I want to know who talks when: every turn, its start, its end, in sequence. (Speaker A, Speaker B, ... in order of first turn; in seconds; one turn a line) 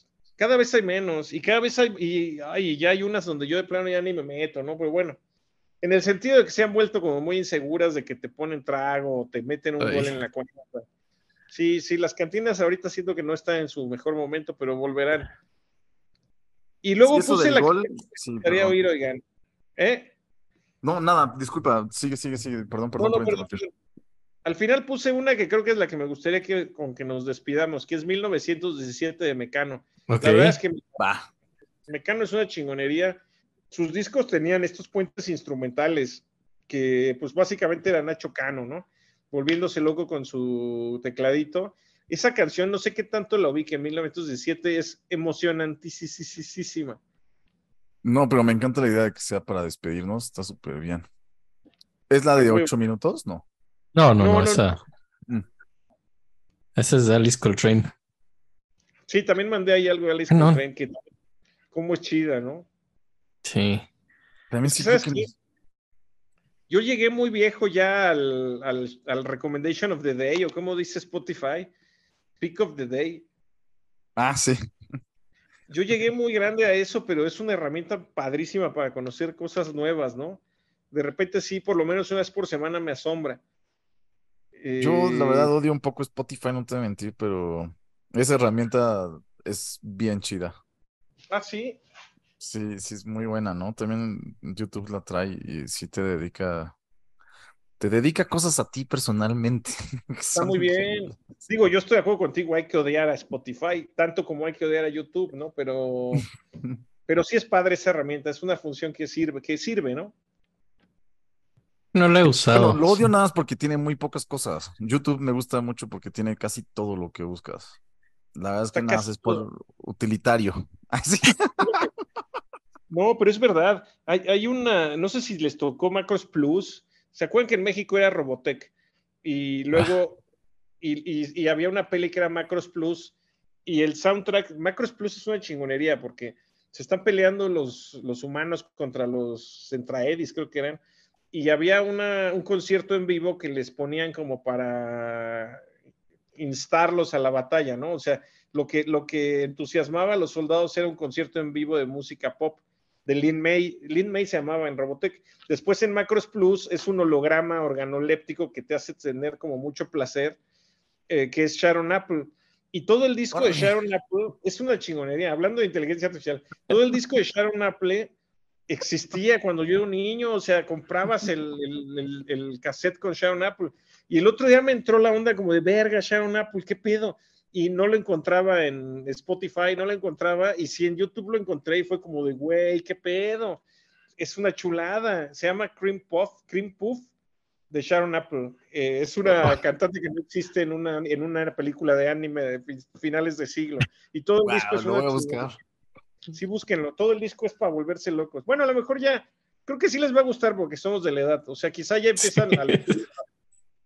Speaker A: 0.4-5.2
Speaker A: 5.8-10.8
Speaker B: 9.8-10.1
Speaker A: 11.5-15.3
Speaker A: 16.8-19.2
Speaker C: 17.1-18.8
Speaker A: 19.8-20.1
Speaker C: 20.8-23.6
Speaker A: 23.0-23.7
Speaker A: 24.4-31.0
Speaker B: 30.1-30.6
Speaker C: 31.0-31.3
Speaker A: 31.9-33.2
Speaker A: 33.7-47.0
Speaker C: 48.0-51.0
Speaker C: 52.1-53.4
Speaker A: 52.4-52.7
Speaker B: 53.9-54.8
Speaker A: 54.2-54.7
Speaker B: 56.8-57.9
Speaker A: 59.1-61.0
Speaker B: 60.3-60.6
Speaker A: 61.7-62.7
Speaker B: 63.4-63.8
Speaker C: 64.5-65.3
Speaker A: 64.6-65.3
Speaker A: 66.7-71.7
Speaker A: 72.4-73.2
Speaker C: 74.2-74.6
Speaker A: 75.7-83.4
Speaker A: 84.6-85.5
Speaker C: 84.8-90.6
Speaker A: 91.3-91.8
Speaker C: 92.4-96.7
Speaker C: 97.8-101.2
Speaker A: 100.3-106.3
Speaker A: 107.1-110.1
Speaker B: 111.9-113.0
Speaker C: 112.5-117.8
Speaker C: 118.3-121.9
Speaker A: 118.7-119.4
Speaker A: 121.6-121.9
Speaker A: 122.9-128.7
Speaker A: 129.2-130.2
Speaker A: 130.8-140.8
Speaker A: 141.3-145.6
Speaker A: 146.3-160.4
Speaker A: 161.1-168.1
Speaker A: 168.7-183.6
Speaker A: 184.2-187.1
Speaker A: 187.7-195.5
Speaker C: 194.4-195.6
Speaker A: 196.3-203.2
Speaker B: 202.4-203.0